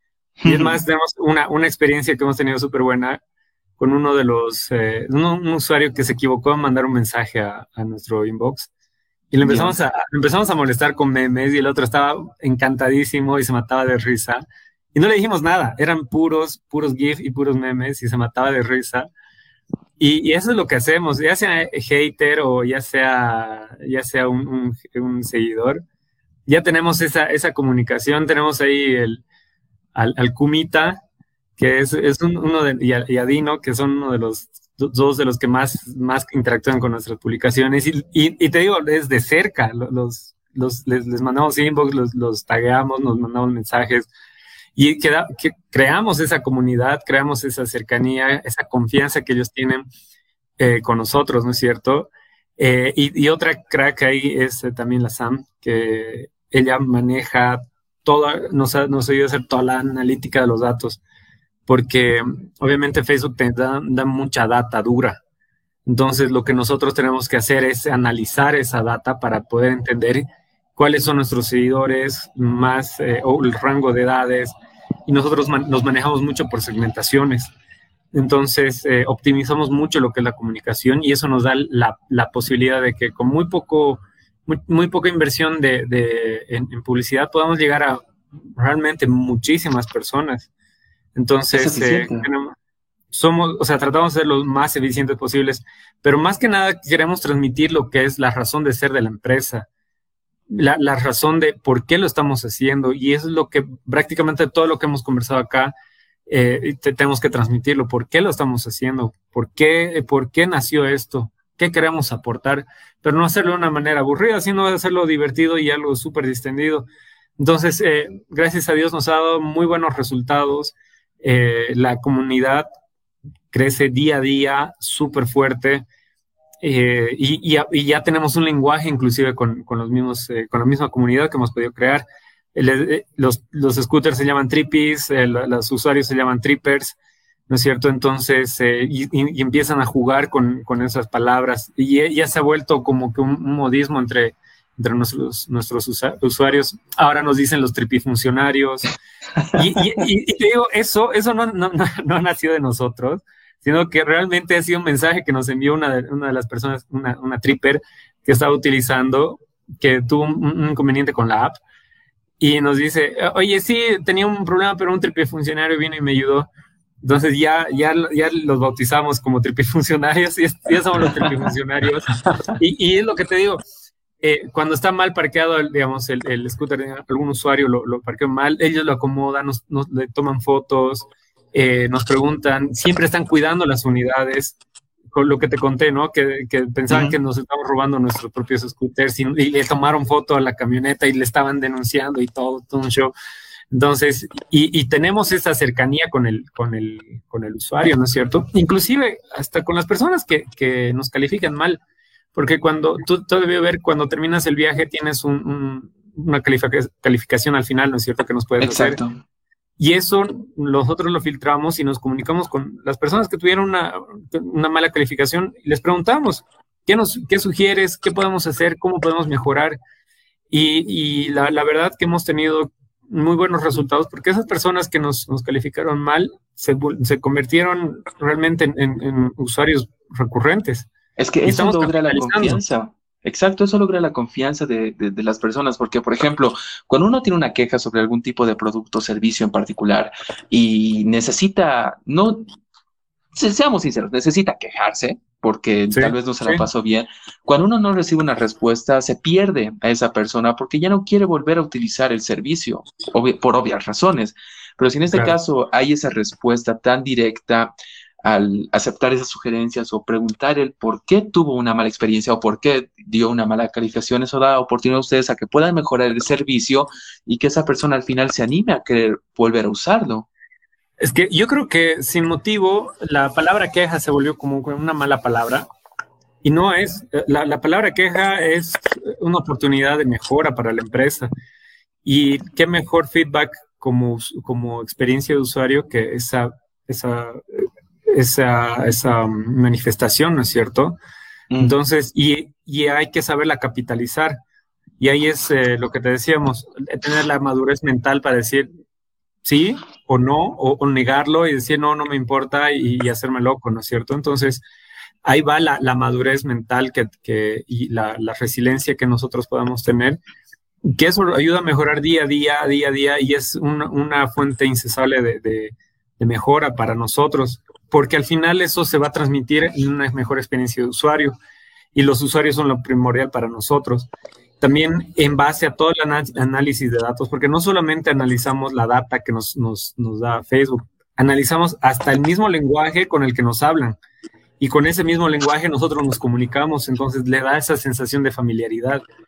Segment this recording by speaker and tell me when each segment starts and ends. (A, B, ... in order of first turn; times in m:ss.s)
0:00.4-0:00.8 A
0:00.4-0:03.2 B
0:03.8-0:08.7 B
0:09.3-0:19.1 B
0:09.4-0:09.8 A
0:20.0-0:25.8 B
0:26.5-0:29.2 B
0:30.0-0:31.0 B
0:31.6-0:44.1 B
0:44.8-0:49.9 B
0:50.6-1:01.0 B
1:01.7-1:05.2 B
1:05.9-1:14.5 B
1:15.1-1:17.5 B
1:18.1-1:28.0 B
1:28.6-1:30.5 B
1:31.2-1:32.5 B
1:31.5-1:32.3 A
1:33.1-1:39.7 B
1:40.5-1:45.7 B
1:46.3-1:56.9 B
1:57.4-2:02.7 B
2:03.5-2:05.8 B
2:06.6-2:17.0 B
2:17.5-2:28.9 B
2:29.5-2:41.6 B
2:42.4-2:46.5 B
2:47.0-2:53.6 B
2:54.2-3:04.6 B
3:05.1-3:13.1 B
3:06.9-3:07.2 A
3:13.7-3:21.8 B
3:22.3-3:29.0 B
3:28.6-3:29.2 A
3:29.8-3:39.8 B
3:40.5-3:50.9 B
3:51.2-4:02.4 A
3:51.4-3:52.6 B
4:03.3-4:17.7 A
4:05.9-4:06.6 B
4:18.2-4:30.3 A
4:31.0-4:35.7 B
4:36.4-4:41.3 B
4:42.0-4:51.0 B
4:51.6-4:54.4 B
4:55.0-4:58.7 B
4:59.4-5:04.6 B
5:05.2-5:10.2 B
5:10.8-5:21.4 B
5:21.9-5:24.1 B
5:24.6-5:34.0 B
5:34.6-5:39.0 B